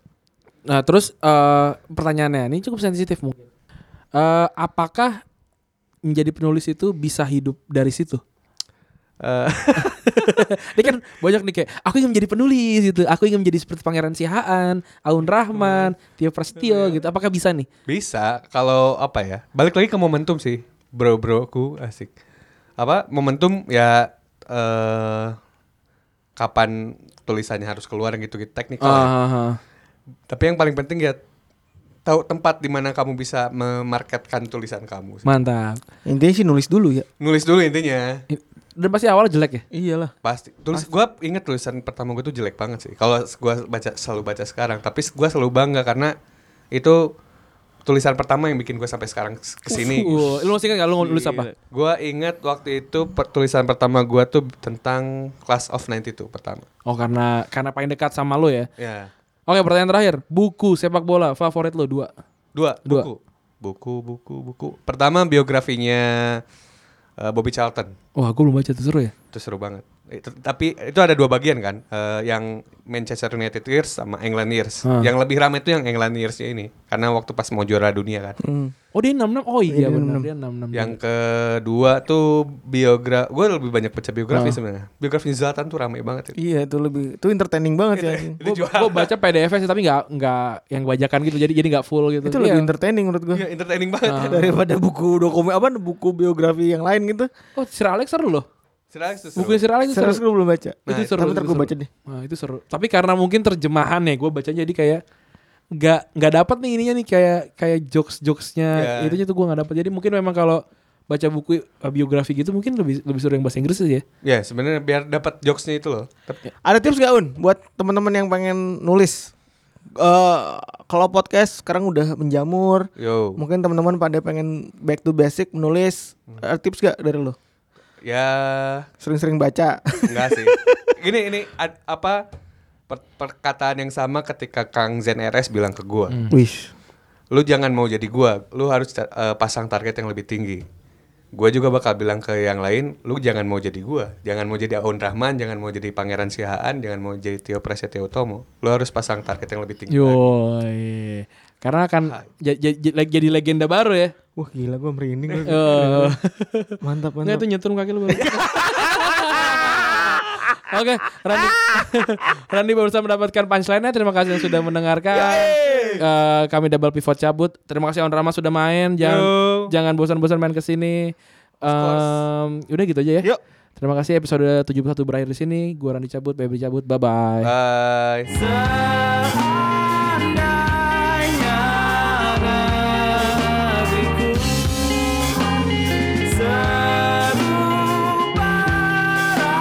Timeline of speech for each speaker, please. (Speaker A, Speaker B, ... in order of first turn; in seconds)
Speaker A: 0.7-3.5, 4.2-5.2, 6.1-8.2, 9.8-17.7, 28.8-29.6, 35.2-35.8, 38.3-39.6, 49.7-51.5, 56.9-58.7, 59.5-62.1, 68.2-69.1, 74.8-75.1, 79.0-81.0, 84.3-84.6, 88.4-92.7, 94.1-94.5, 97.6-98.5, 99.4-100.2, 100.9-105.0, 105.8-114.0, 149.9-154.1, 155.5-173.3, 173.8-177.5, 183.0-184.6, 186.9-187.6
Speaker B: 9.2-10.0, 15.5-15.9, 16.6-17.0, 17.9-22.1, 22.8-25.4, 26.4-29.1, 30.3-31.2, 32.0-35.3, 37.2-38.2, 40.2-46.1, 46.7-47.1, 47.9-56.7, 58.8-59.1, 62.5-66.4, 67.2-68.0, 69.3-78.4, 80.7-86.4, 87.9-89.1, 93.3-94.5, 98.9-99.7, 100.9-101.2, 108.7-109.2, 114.2-116.4, 123.0-123.4, 128.0-128.9, 130.1-132.2, 132.9-136.2, 137.3-140.6, 141.3-150.3, 165.1-166.0, 169.0-169.7, 171.7-172.2, 177.4-178.6
Speaker C: 36.1-37.1, 39.7-40.1, 78.4-78.7, 79.7-80.3, 86.4-88.4, 92.2-93.5, 94.1-97.3, 99.9-101.9, 116.6-119.3, 120.0-127.4, 129.0-130.8, 136.3-136.7, 154.4-156.2, 156.8-157.4, 158.1-158.9, 165.7-166.0